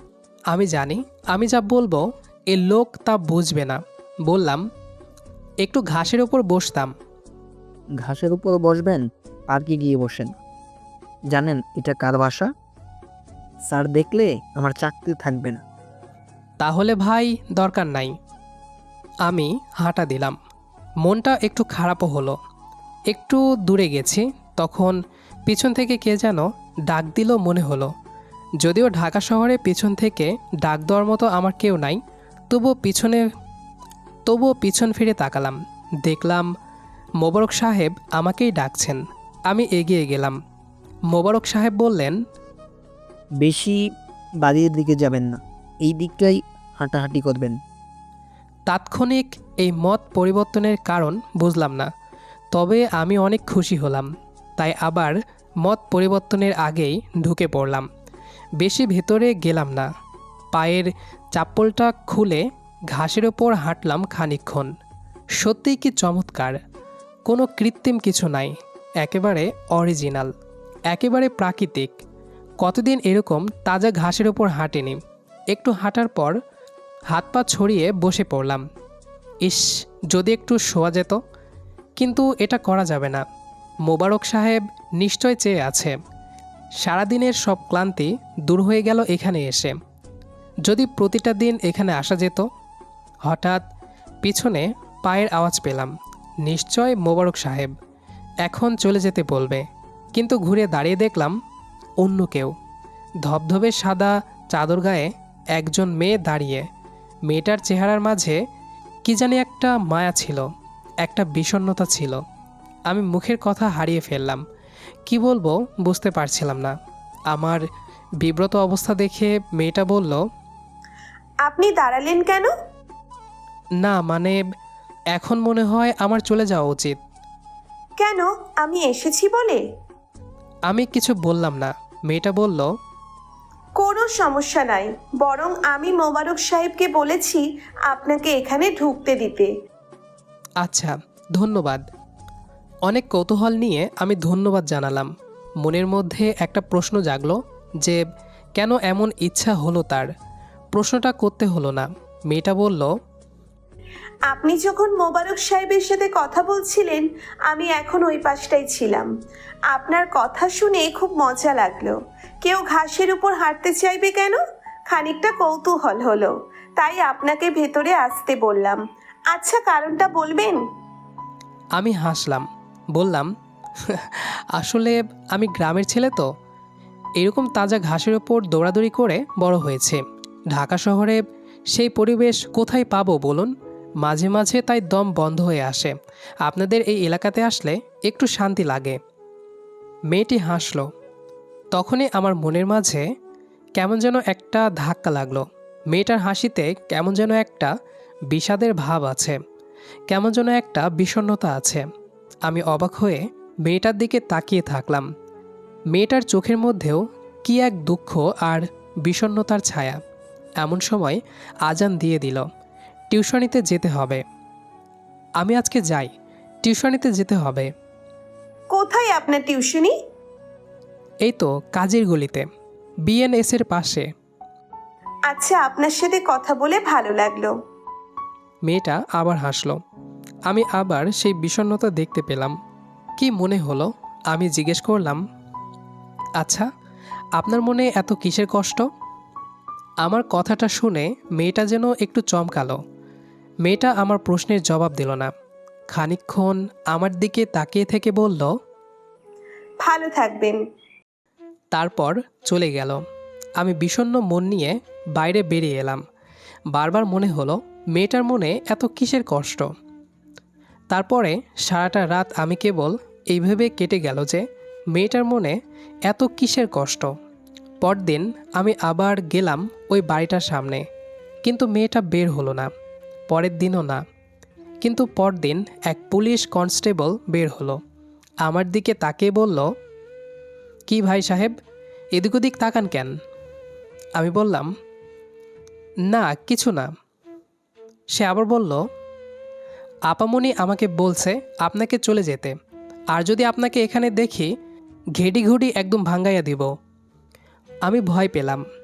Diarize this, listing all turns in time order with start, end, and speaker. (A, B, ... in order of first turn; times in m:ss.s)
0:00.5-0:04.6 A
0:05.6-0:06.9 A
0:08.0-0:10.3 B
0:11.3-0:12.5 B
0:13.7-0:15.6 B
0:16.6-0:18.1 A
0:19.2-0:20.4 A
0:21.0-0:22.4 A
0:23.1-0:27.9 A
0:28.6-0:32.0 A
0:32.5-0:33.2 A
0:34.3-0:36.5 A
0:37.2-0:40.4 A
0:41.1-0:42.2 A
0:43.4-0:43.8 B
0:44.4-0:47.6 B
0:48.7-0:51.9 A
0:52.5-0:57.9 A
0:58.6-0:59.9 A
1:00.5-1:04.7 A
1:05.4-1:06.6 A
1:07.3-1:10.3 A
1:10.9-1:12.0 A
1:12.6-1:15.0 A
1:15.5-1:16.4 A
1:17.1-1:18.6 A
1:19.4-1:21.2 A
1:22.0-1:23.2 A
1:23.9-1:26.0 A
1:26.8-1:29.8 A
1:30.7-1:32.4 A
1:33.2-1:33.6 A
1:34.2-1:35.9 A
1:36.4-1:37.7 A
1:38.4-1:41.3 A
1:42.0-1:42.5 A
1:43.2-1:46.7 A
1:47.3-1:48.4 A
1:49.0-1:50.5 A
1:51.0-1:52.2 A
1:52.9-1:54.4 A
1:55.1-1:56.8 A
1:57.3-1:57.6 A
1:58.2-2:00.2 A
2:01.4-2:02.5 C
2:03.8-2:04.4 A
2:05.1-2:07.0 A
2:08.0-2:09.6 C
2:10.7-2:12.7 A
2:13.8-2:19.5 C
2:20.6-2:21.8 A
2:22.9-2:25.1 A
2:25.6-2:28.0 A
2:28.6-2:30.1 A
2:30.7-2:32.9 A
2:34.3-2:39.1 C
2:39.7-2:48.8 C
2:49.3-2:50.6 C
2:51.8-2:53.3 A
2:53.9-2:56.3 A
2:57.2-3:01.2 A
3:01.7-3:09.0 A
3:10.1-3:10.9 A
3:11.7-3:13.0 A
3:13.8-3:17.7 A
3:18.3-3:19.4 A
3:20.1-3:21.8 A
3:22.4-3:25.1 A
3:25.9-3:30.0 A
3:30.6-3:32.4 A
3:33.1-3:34.2 A
3:35.4-3:36.1 A
3:36.6-3:37.7 A
3:38.7-3:39.9 C
3:41.2-3:42.4 A
3:43.1-3:44.1 A
3:45.3-3:47.5 C
3:48.7-3:49.8 A
3:50.5-3:52.5 A
3:53.2-3:55.2 A
3:56.4-3:56.7 A
3:57.4-3:58.8 A
4:00.0-4:02.8 A
4:03.6-4:05.3 A
4:05.9-4:08.5 A
4:09.8-4:10.6 C
4:11.7-4:13.0 A
4:13.6-4:16.0 A
4:16.7-4:19.7 A
4:20.9-4:25.6 A
4:26.1-4:27.1 A
4:27.8-4:30.8 A
4:31.4-4:32.7 A
4:33.3-4:34.0 A
4:34.8-4:37.8 A
4:38.4-4:39.7 A
4:40.9-4:41.6 A
4:42.2-4:43.1 A
4:44.2-4:44.7 A
4:46.1-4:46.9 A
4:48.2-4:48.8 A
4:50.1-4:52.6 A
4:53.1-4:54.5 A
4:55.2-4:56.7 A
4:57.8-4:58.6 A